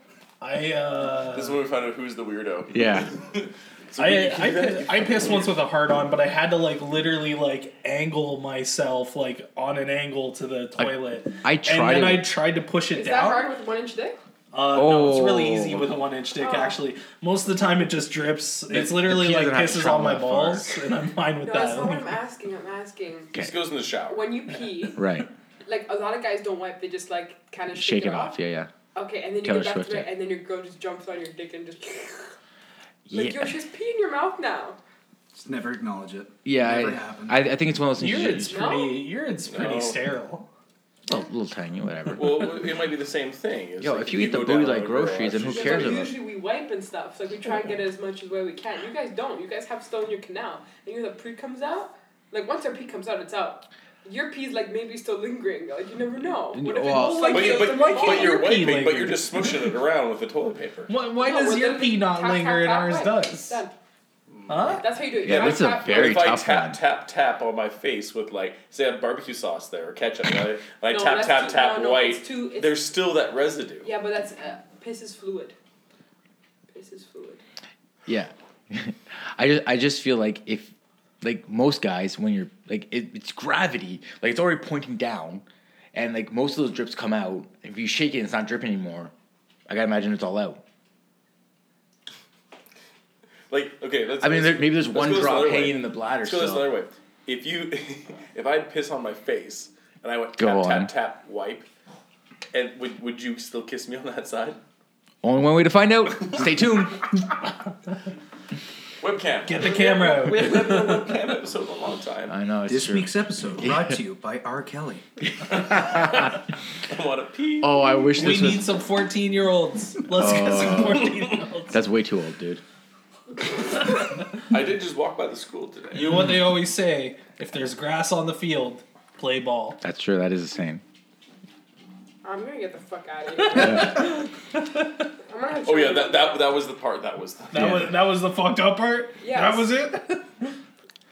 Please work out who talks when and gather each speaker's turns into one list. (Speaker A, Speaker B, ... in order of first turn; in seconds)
Speaker A: 0.4-1.6, 4.0-13.5, 14.5-22.2, 38.0-40.5, 57.9-59.3, 60.9-63.6, 64.5-64.9, 109.5-111.0, 118.2-121.8, 125.9-129.8, 133.4-134.8, 137.5-140.5
Speaker B: 1.3-5.5, 23.4-24.4, 39.5-40.0, 42.1-46.0, 57.2-60.9, 65.3-73.9, 93.5-101.7, 102.5-104.6, 109.0-112.3, 115.7-116.4, 116.9-117.8, 124.5-126.3, 135.7-137.8
Speaker C: 2.7-3.1, 10.8-12.3, 14.7-16.0, 18.7-20.8, 25.0-25.3, 27.7-28.7, 29.4-30.1, 33.1-33.6, 36.5-38.8, 41.1-42.5, 43.8-46.1, 56.5-57.7, 65.2-66.8, 78.1-89.1, 89.7-90.6, 94.2-96.7, 100.4-100.9, 105.2-107.2, 112.3-113.9, 115.5-116.3, 117.6-118.7, 120.2-121.1, 121.7-122.6, 129.8-130.8, 133.6-134.0, 137.5-137.9
Speaker D: 12.9-14.2, 16.4-16.8, 21.4-23.4, 24.1-25.1, 25.6-28.4, 28.9-32.3, 33.1-34.8, 38.5-39.0, 45.5-58.6, 61.1-63.7, 64.7-66.2, 70.9-72.8, 73.8-75.6, 76.7-77.4, 109.7-110.5, 132.2-134.3, 135.3-136.6, 139.2-139.7
Speaker E: 35.3-37.4, 112.7-115.1